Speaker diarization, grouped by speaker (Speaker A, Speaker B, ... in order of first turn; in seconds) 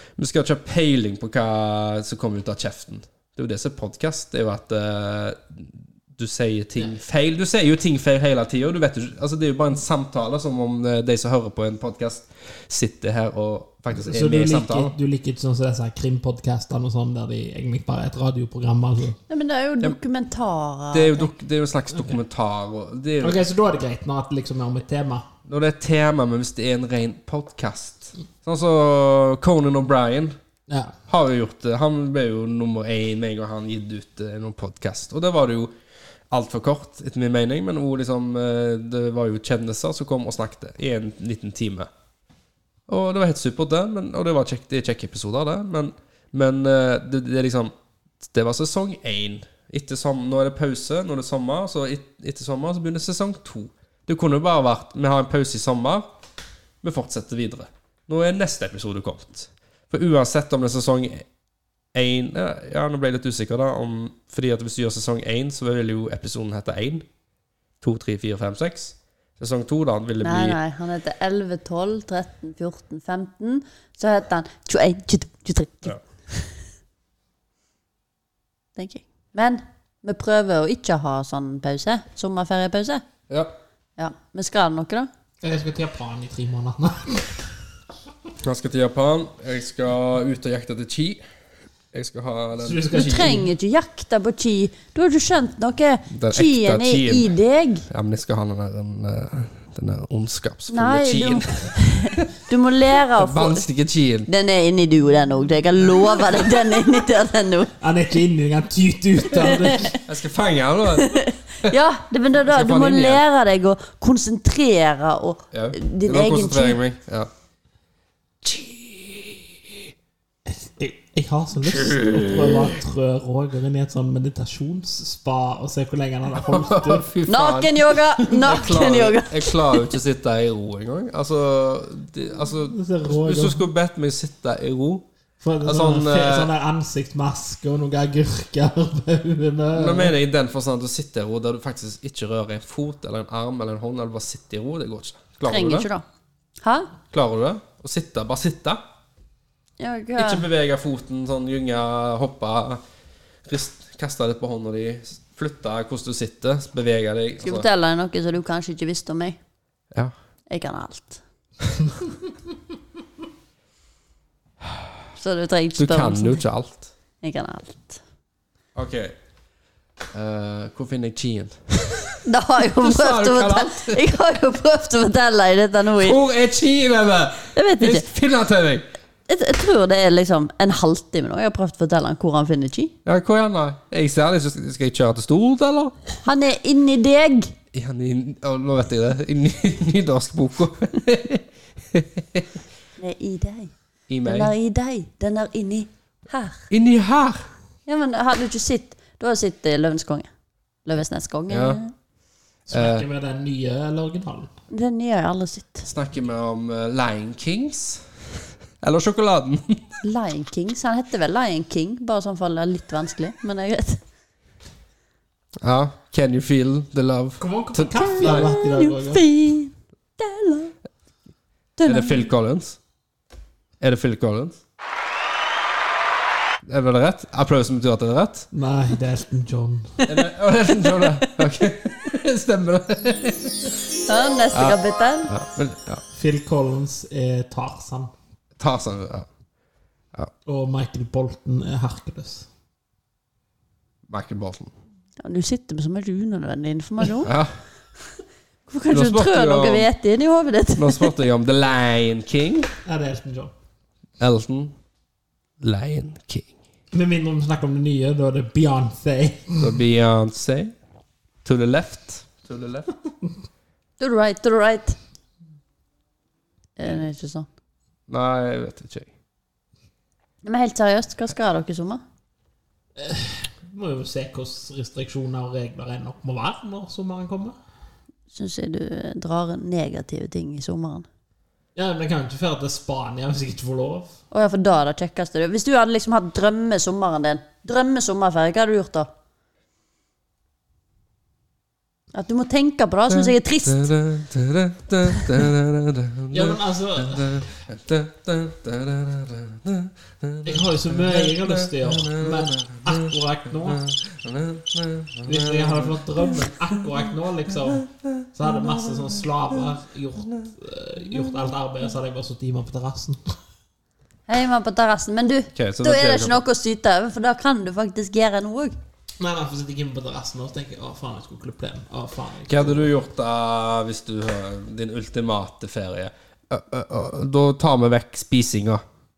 Speaker A: 0.2-14.9, 20.9-23.4, 25.5-30.4, 31.1-35.7, 36.3-41.9, 42.9-56.0, 56.8-61.3, 61.9-67.1, 67.8-70.6, 88.4-91.2, 91.9-93.4, 96.1-97.3, 97.9-102.3, 103.2-104.3, 110.0-111.7, 112.4-113.2, 115.5-117.3, 118.4-119.9, 121.9-122.6, 126.4-135.1, 135.6-136.5, 139.7-145.9, 147.1-148.8, 150.2-152.8, 153.4-157.7, 165.8-166.9, 168.8-169.2, 170.1-172.2, 172.7-174.1, 176.0-178.8, 183.1-185.9, 187.7-192.5, 194.1-194.5, 196.7-197.4, 201.5-201.8, 202.7-203.1, 205.9-208.1, 208.8-210.0, 215.6-218.5, 221.8-222.8, 223.8-224.6, 226.7-228.5, 230.1-233.7, 234.5-236.0, 238.6-239.3, 244.1-244.7, 247.2-247.6, 248.9-249.9, 250.8-252.7, 254.2-254.8, 255.6-256.5, 259.6-260.7, 261.4-262.9, 268.1-269.1, 293.1-306.0, 315.6-316.4, 322.5-328.8
Speaker B: 14.0-19.2, 23.2-25.3, 30.7-31.0, 85.4-87.4, 92.6-93.5, 107.8-110.0, 120.5-127.1, 132.7-133.6, 135.4-140.2, 202.7-204.5, 217.4-219.2, 228.5-230.0, 236.1-238.1, 240.5-242.5, 252.9-253.5, 256.9-259.7, 273.0-277.6, 281.8-284.2, 296.3-297.5, 300.4-303.9, 305.3-313.4, 319.2-322.9
Speaker C: 19.3-21.3, 70.2-76.5, 78.8-83.0, 84.0-85.1, 92.9-97.9, 100.7-103.7, 104.3-107.7, 109.5-110.0, 111.0-116.8, 127.3-129.9, 145.5-146.0, 146.6-146.9, 149.8-150.5, 157.4-159.4, 160.5-161.2, 165.2-166.4, 167.2-168.0, 172.3-176.2, 177.6-178.1, 179.3-182.9, 186.2-187.5, 193.0-196.6, 197.9-200.3, 200.9-201.9, 204.7-205.9, 210.0-214.0, 218.0-220.7, 221.8-222.2, 234.1-235.3, 245.2-247.3, 248.7-251.2, 264.0-265.0, 266.8-267.5, 270.4-272.0, 278.3-281.1, 284.3-289.1, 292.1-293.9, 314.3-318.8